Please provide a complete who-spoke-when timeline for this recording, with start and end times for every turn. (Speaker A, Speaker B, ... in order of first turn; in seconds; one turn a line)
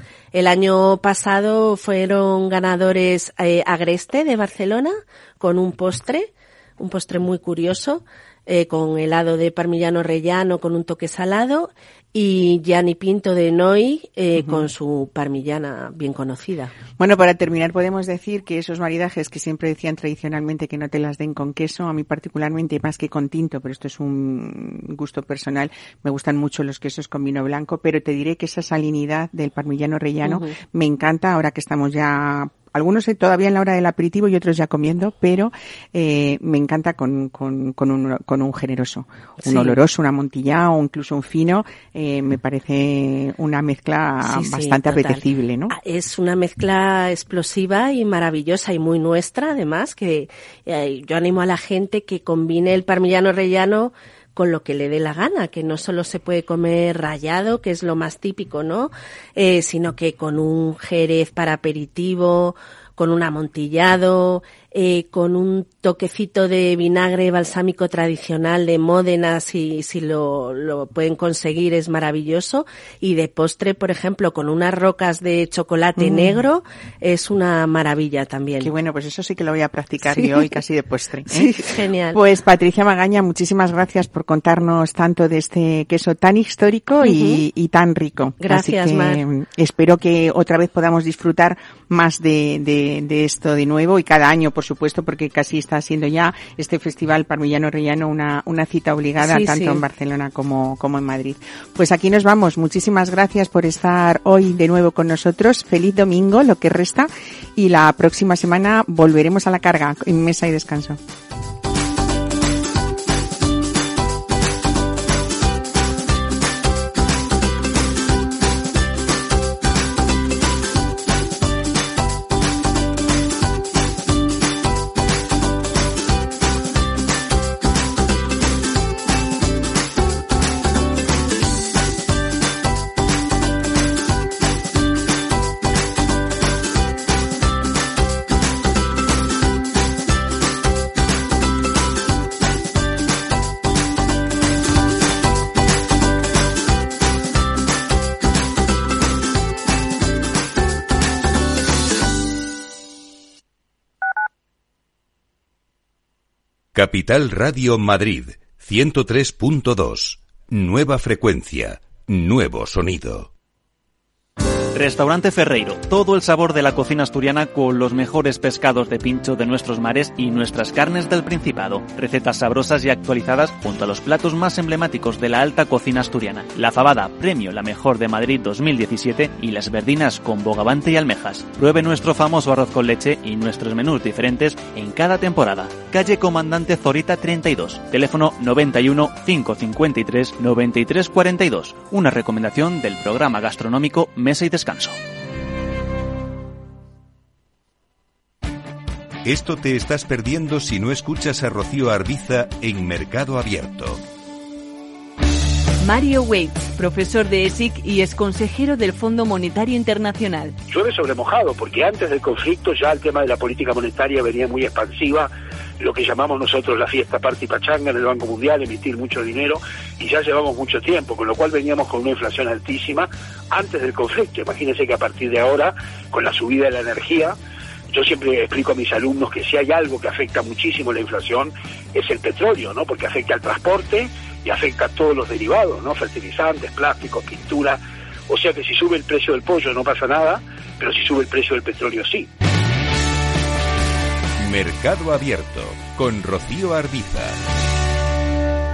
Speaker A: 0.3-16.7
Speaker B: 14.4-14.6
Speaker B: 17.0-45.7
Speaker A: 30.2-30.6
Speaker A: 39.4-39.8
Speaker A: 44.2-78.7
Speaker B: 76.0-76.4
Speaker B: 78.6-81.5
Speaker A: 80.0-80.6
Speaker A: 81.3-82.2
Speaker B: 82.1-111.0
Speaker A: 87.0-87.5
Speaker A: 88.4-89.2
Speaker A: 99.2-99.8
Speaker C: 156.8-163.3
Speaker D: 164.7-195.0
Speaker C: 199.2-204.0
Speaker E: 205.8-210.6
Speaker F: 210.7-227.4
Speaker F: 227.9-242.3
Speaker C: 244.4-247.4